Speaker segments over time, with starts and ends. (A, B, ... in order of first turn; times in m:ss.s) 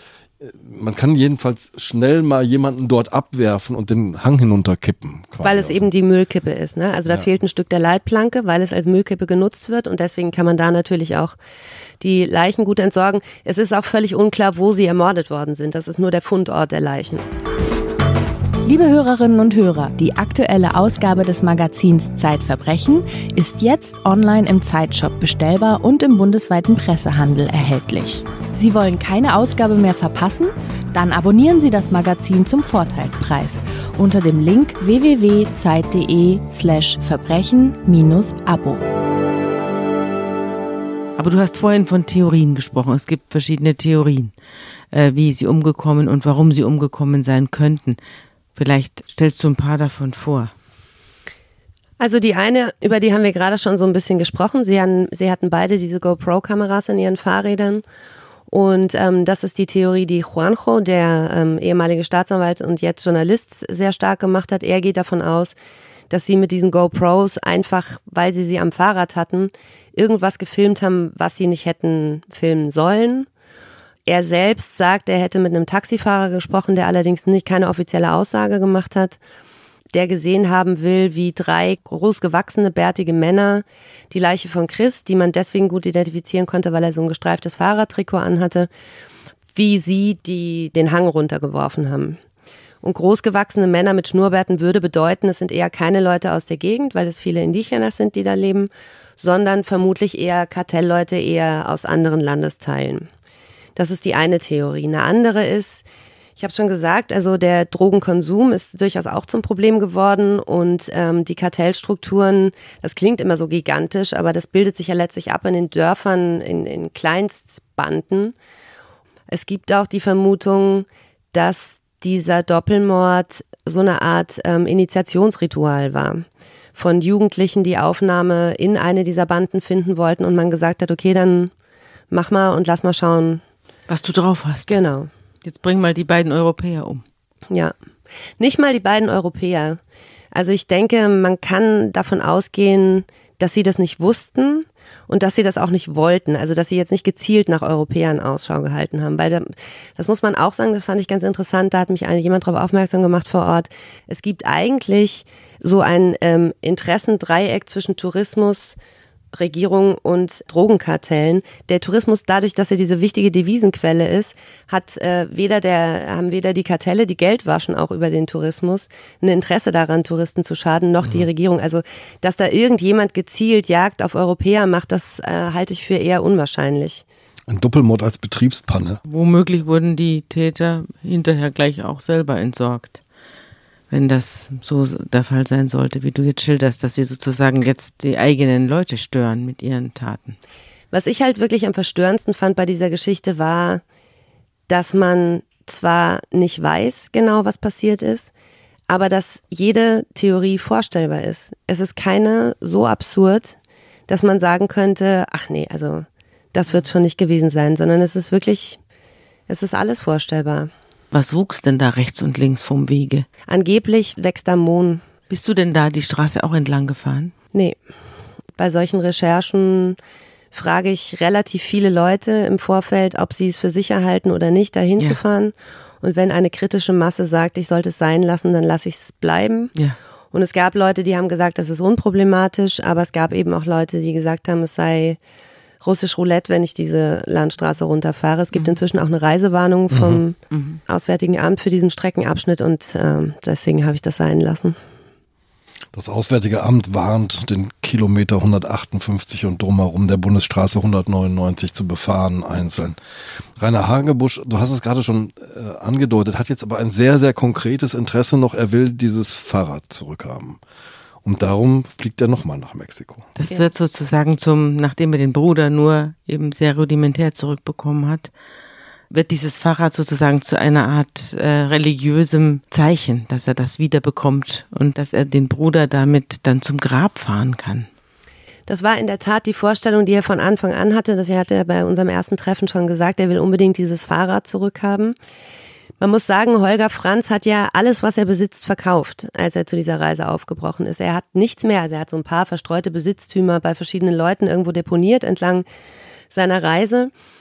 0:00.4-0:05.9 A
0:05.4-0:11.4 B
0:12.0-0:17.3 B
0:18.6-0:38.8 C
0:41.2-0:44.3 D
0:44.9-0:48.0 D
0:48.6-0:50.5 D
0:52.0-0:57.8 B
0:58.5-1:05.6 B
1:06.1-1:13.3 B
1:14.1-1:19.2 B
1:19.9-1:28.7 B
1:29.6-1:32.2 B
1:32.8-1:43.1 B
1:43.8-1:45.8 B
1:46.4-1:58.4 B
1:59.3-2:11.5 B
2:12.1-2:13.4 B
2:13.9-2:14.8 D
2:14.7-2:15.1 B
2:15.4-2:17.0 D
2:18.4-2:19.8 B
2:20.3-2:38.8 B
2:39.3-2:57.0 B
2:57.5-2:59.0 A
2:59.1-3:03.0 D
3:03.9-3:10.4 D
3:10.9-3:13.8 B
3:14.7-3:18.3 B
3:18.9-3:23.6 B
3:24.1-3:28.8 B
3:29.5-3:30.7 B
3:31.1-3:33.3 D
3:33.5-3:35.0 B
3:35.3-3:37.4 D
3:38.6-3:40.0 B
3:40.5-3:49.7 B
3:50.3-3:55.2 B
3:55.8-4:04.8 B
3:59.9-4:00.2 A
4:00.5-4:00.8 D
4:05.9-4:13.0 A
4:13.6-4:20.6 A
4:21.2-4:23.3 A
4:23.4-4:28.3 D
4:29.1-4:37.9 D
4:38.7-4:45.2 B
4:46.0-4:55.7 B
4:56.3-4:57.1 B